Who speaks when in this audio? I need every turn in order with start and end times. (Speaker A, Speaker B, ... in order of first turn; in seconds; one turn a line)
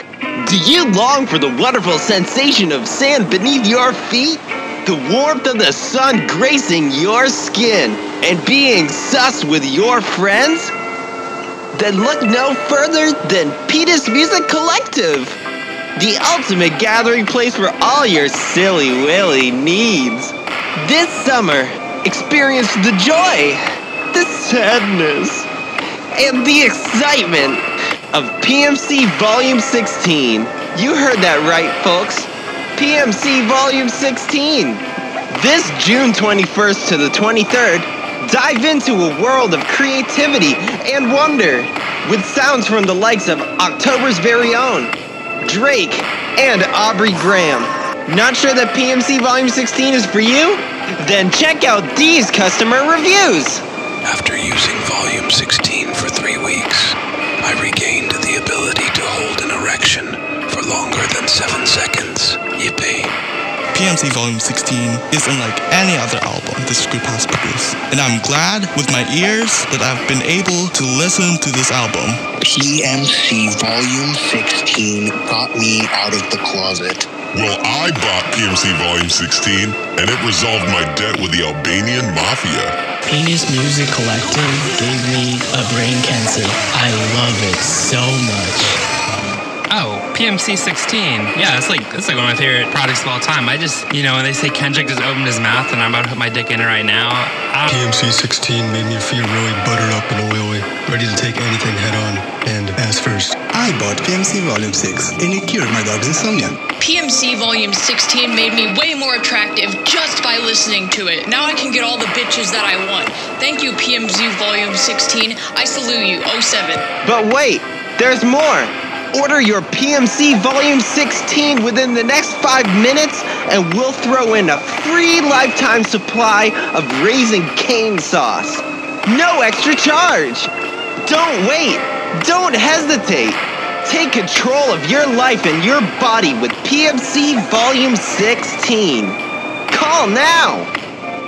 Speaker A: 0.4-10.7
Speaker A: 11.8-15.4
Speaker A: 16.0-23.6
Speaker A: 24.1-25.5
Speaker A: 26.1-27.6
Speaker A: 28.1-44.9
Speaker A: 45.5-53.6
Speaker B: 54.1-63.1
Speaker C: 63.7-72.2
Speaker D: 72.5-77.1
Speaker E: 77.3-82.7
Speaker F: 83.1-88.8
Speaker G: 89.7-97.7
Speaker H: 97.8-103.2
Speaker I: 103.5-106.5
Speaker J: 106.8-116.8
Speaker A: 117.0-130.5
Speaker A: 131.1-139.2
Speaker A: 139.7-140.7